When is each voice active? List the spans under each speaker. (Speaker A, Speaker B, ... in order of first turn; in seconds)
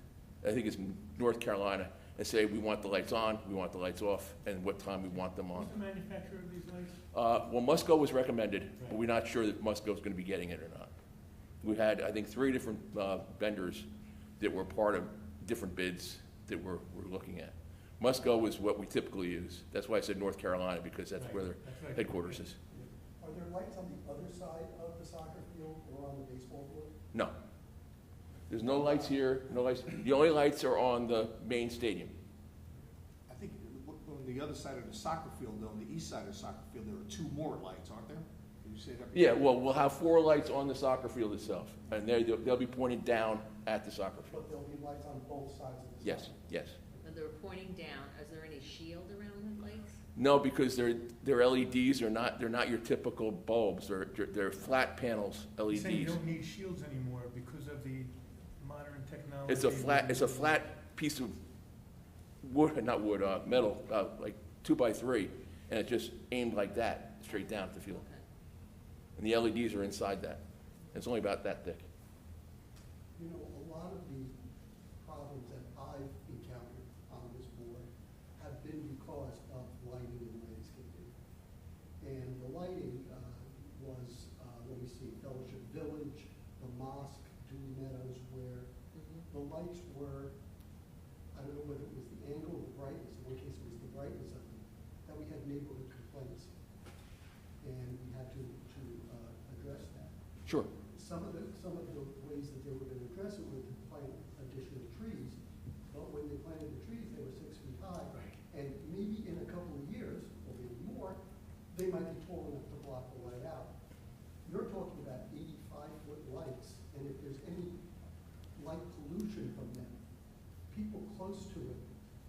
Speaker A: 0.4-5.7, 7.1-10.9, 11.6-13.9, 14.4-22.6, 28.5-32.1, 39.1-44.5, 46.0-46.8, 50.1-56.2, 59.5-61.3, 62.4-68.0, 69.2-70.4, 70.9-71.8, 100.5-100.7
Speaker B: 5.5-7.0, 21.1-22.4, 55.7-60.6
Speaker C: 22.7-26.9, 28.5-29.2, 44.3-47.0, 73.2-74.3, 75.0-81.1, 82.0-88.7, 89.3-90.3, 91.3-96.5, 97.6-100.2, 100.7-105.4, 105.9-111.2, 111.7-113.7, 114.4-117.8, 118.5-120.0, 120.7-121.8
Speaker D: 33.3-39.5
Speaker E: 47.0-50.0, 67.3-68.2, 88.9-89.3